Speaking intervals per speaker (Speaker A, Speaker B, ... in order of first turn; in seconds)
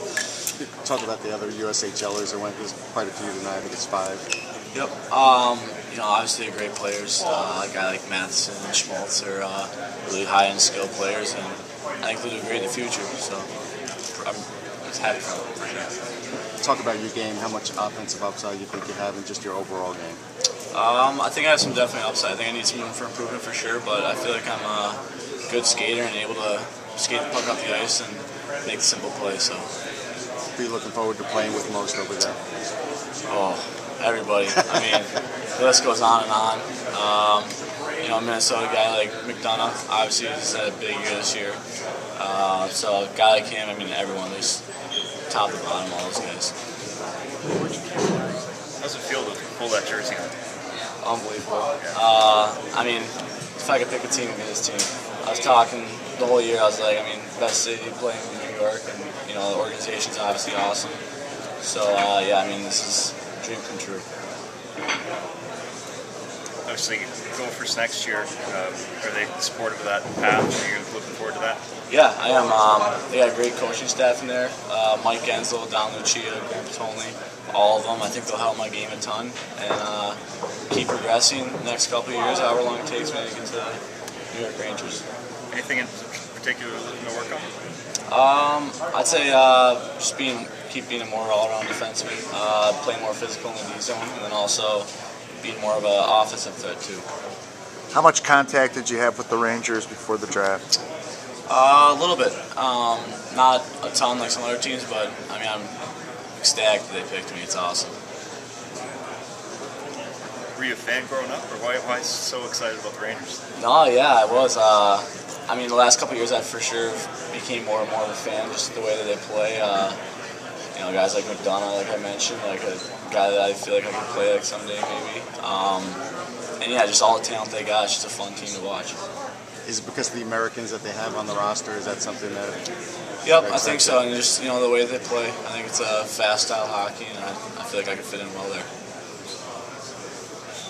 Speaker A: 0.6-4.2, 16.6-20.2, 30.6-32.4, 129.7-132.6, 133.3-134.1
Speaker B: 4.7-13.5, 14.1-15.9, 20.7-29.7, 33.3-41.6, 42.2-44.6, 45.3-46.5, 51.0-61.0, 61.6-64.1, 71.9-80.2, 80.7-83.8, 84.3-85.0, 88.1-94.9, 95.4-97.0, 101.5-105.7, 106.3-108.0, 113.6-120.0, 120.8-126.0, 126.6-129.0, 133.2-138.7
Speaker C: 48.8-50.3, 66.7-71.6, 85.5-87.5, 110.6-113.4
Speaker D: 97.9-100.6